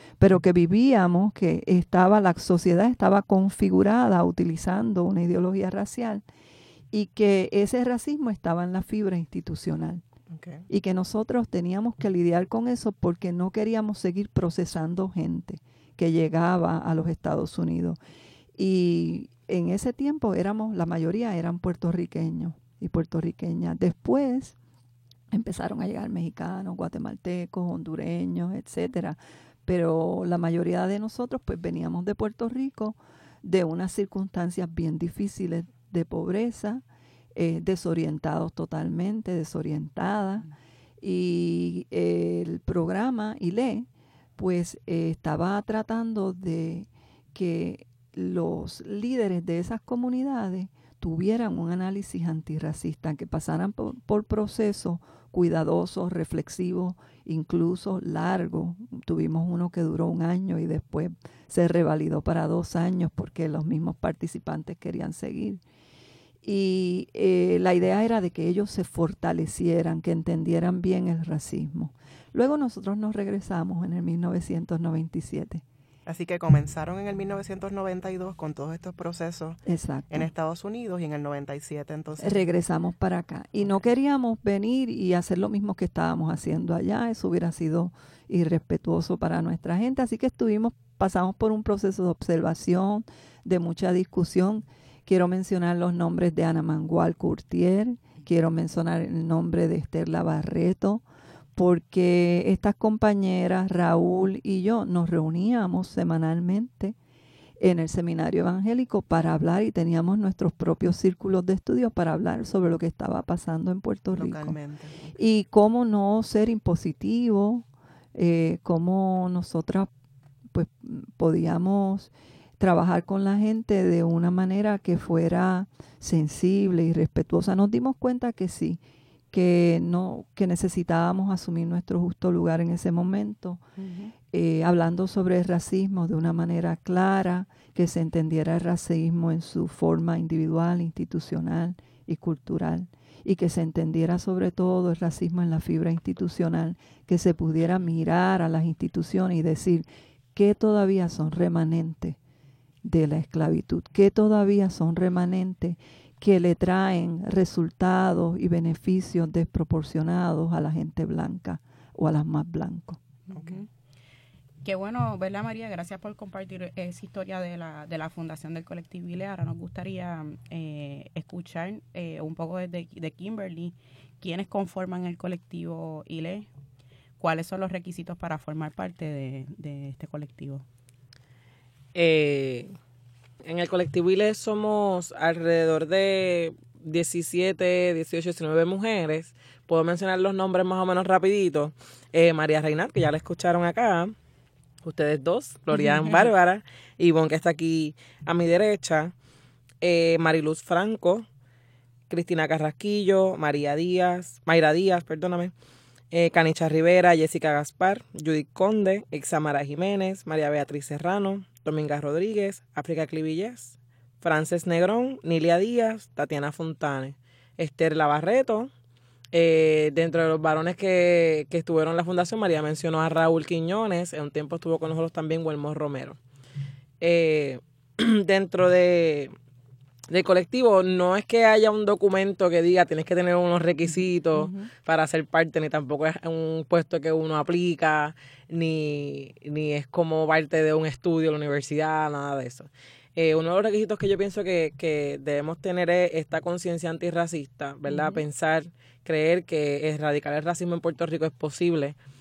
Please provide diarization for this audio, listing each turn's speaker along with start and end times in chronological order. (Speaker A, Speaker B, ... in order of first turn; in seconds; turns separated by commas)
Speaker A: 0.2-6.2, Speaker A: 6.9-10.0, Speaker B: 10.3-10.7, Speaker A: 10.7-18.0, Speaker A: 18.6-24.6, Speaker A: 25.3-36.8, Speaker A: 37.4-65.6, Speaker A: 66.4-75.6, Speaker B: 76.1-79.6, Speaker A: 79.7-80.3, Speaker B: 80.1-82.4, Speaker A: 82.2-101.0, Speaker A: 101.6-107.0, Speaker A: 107.6-114.6, Speaker B: 114.1-115.1, Speaker A: 115.2-119.9, Speaker A: 120.5-128.8, Speaker A: 129.3-133.6, Speaker C: 133.8-134.1, Speaker A: 134.3-152.2, Speaker A: 152.8-163.0, Speaker C: 163.3-163.7, Speaker B: 163.3-163.6, Speaker C: 164.6-176.5, Speaker C: 177.2-180.6, Speaker D: 181.9-182.7, Speaker D: 183.4-194.1, Speaker D: 194.8-199.1, Speaker D: 199.8-201.2, Speaker D: 202.1-205.5, Speaker D: 206.1-218.7, Speaker D: 219.3-226.2, Speaker D: 227.0-229.3, Speaker D: 230.1-252.0, Speaker C: 234.3-234.7, Speaker C: 247.9-248.2